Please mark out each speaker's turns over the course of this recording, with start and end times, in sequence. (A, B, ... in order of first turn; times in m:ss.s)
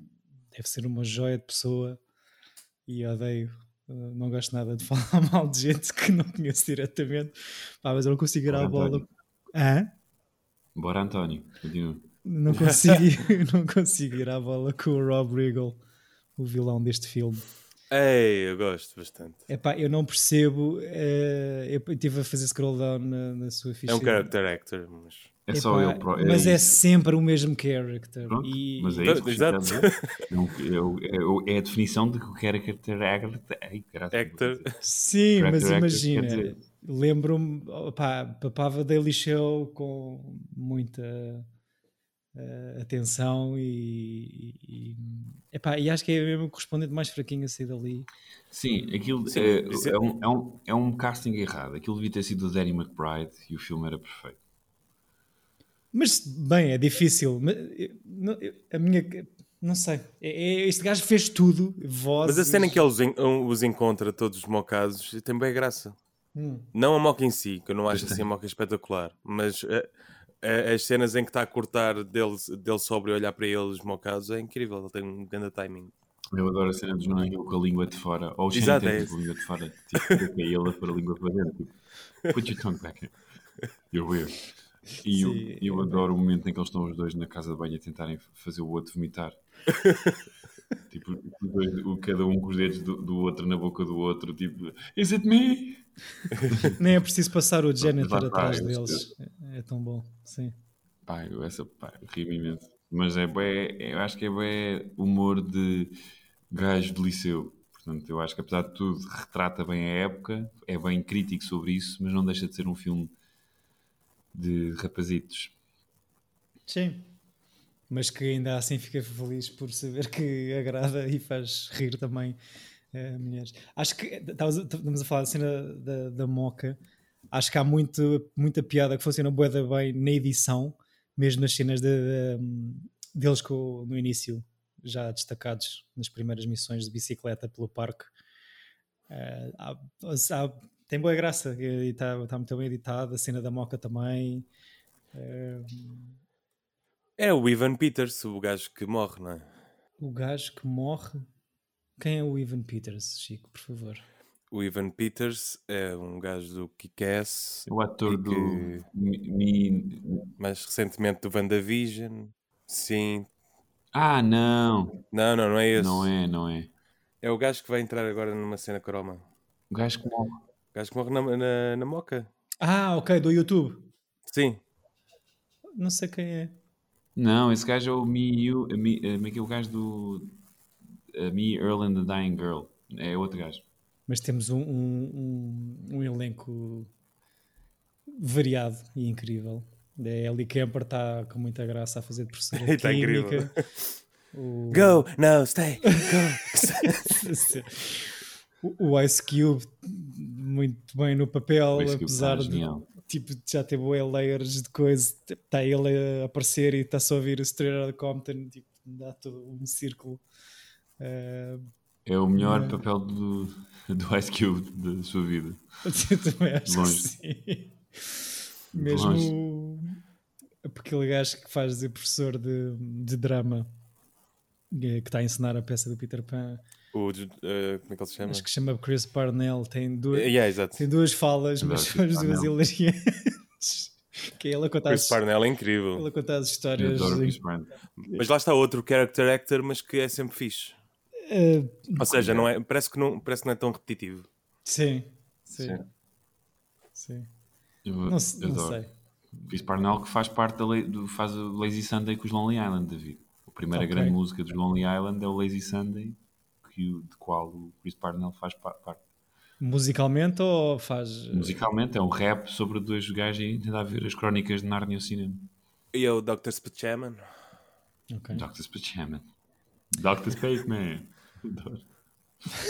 0:00.5-0:02.0 A
0:02.9-0:09.9 A
0:08.5-0:09.1 B
0:10.8-0:12.1 B
0:12.2-0:15.8 A
0:12.5-0:13.0 C
0:16.4-0:17.4 A
0:17.9-0:19.5 C
0:19.5-0:24.3 A
0:23.9-0:25.3 C
0:25.5-0:26.8 B
0:25.5-0:29.3 A
0:28.2-0:34.8 B
0:29.0-0:30.2 C
0:34.1-0:34.8 C
0:34.8-0:41.5 A
0:35.3-0:36.6 B
0:42.4-0:48.1 A
0:48.5-0:54.4 B
0:49.3-0:50.0 C
0:55.9-1:02.8 A
1:02.2-1:06.0 C
1:06.4-1:06.7 A
1:06.7-1:09.9 C
1:07.9-1:08.3 B
1:10.4-1:15.9 C
1:16.3-1:23.1 B
1:18.5-1:19.2 C
1:20.0-1:20.2 C
1:23.9-1:24.4 B
1:25.0-1:29.4 B
1:25.1-1:26.0 A
1:29.7-1:30.2 C
1:30.9-1:35.9 B
1:36.4-1:36.8 B
1:36.7-1:40.6 A
1:37.8-1:39.1 B
1:41.1-1:46.0 B
1:46.5-1:53.1 B
1:54.3-1:55.5 B
1:56.7-1:57.1 A
1:57.9-2:02.4 A
2:02.9-2:06.8 A
2:07.3-2:18.1 A
2:19.1-2:24.5 A
2:25.1-2:26.2 A
2:27.2-2:29.5 C
2:30.0-2:31.3 A
2:32.0-2:34.0 A
2:34.5-2:38.9 C
2:37.7-2:40.3 B
2:40.4-2:43.3 C
2:43.9-2:45.0 B
2:45.1-2:46.1 C
2:45.7-2:46.7 B
2:47.2-2:49.2 C
2:49.7-2:50.4 B
2:50.7-2:52.3 C
2:52.6-2:53.9 A
2:54.3-2:54.6 C
2:55.8-2:56.6 A
2:57.2-3:00.3 B
3:01.1-3:03.6 B
3:04.1-3:06.9 A
3:08.1-3:13.5 A
3:12.5-3:13.8 C
3:14.3-3:15.0 A
3:14.7-3:17.3 C
3:15.9-3:30.2 A
3:21.7-3:22.9 B
3:31.0-3:31.7 A
3:32.0-3:35.6 B
3:32.4-3:32.8 A
3:35.8-3:40.0 A
3:36.7-3:37.1 B
3:38.7-3:39.4 B
3:40.6-3:43.7 A
3:44.7-3:46.6 A
3:46.9-3:48.5 C
3:48.2-3:55.2 A
3:50.1-3:50.8 C
3:51.6-3:52.6 B
3:54.9-3:56.1 C
3:56.0-3:57.4 A
3:56.8-3:57.7 B
3:58.1-4:00.8 C
4:01.2-4:02.0 A
4:02.0-4:04.3 C
4:02.1-4:02.5 B
4:04.7-4:05.8 A
4:07.0-4:07.3 A
4:07.8-4:08.8 B
4:08.1-4:08.9 A
4:09.5-4:19.0 B
4:13.7-4:14.2 A
4:19.6-4:21.6 A
4:21.3-4:25.5 B
4:25.9-4:27.2 C
4:28.1-4:28.4 A
4:28.3-4:29.2 B
4:29.9-4:31.8 B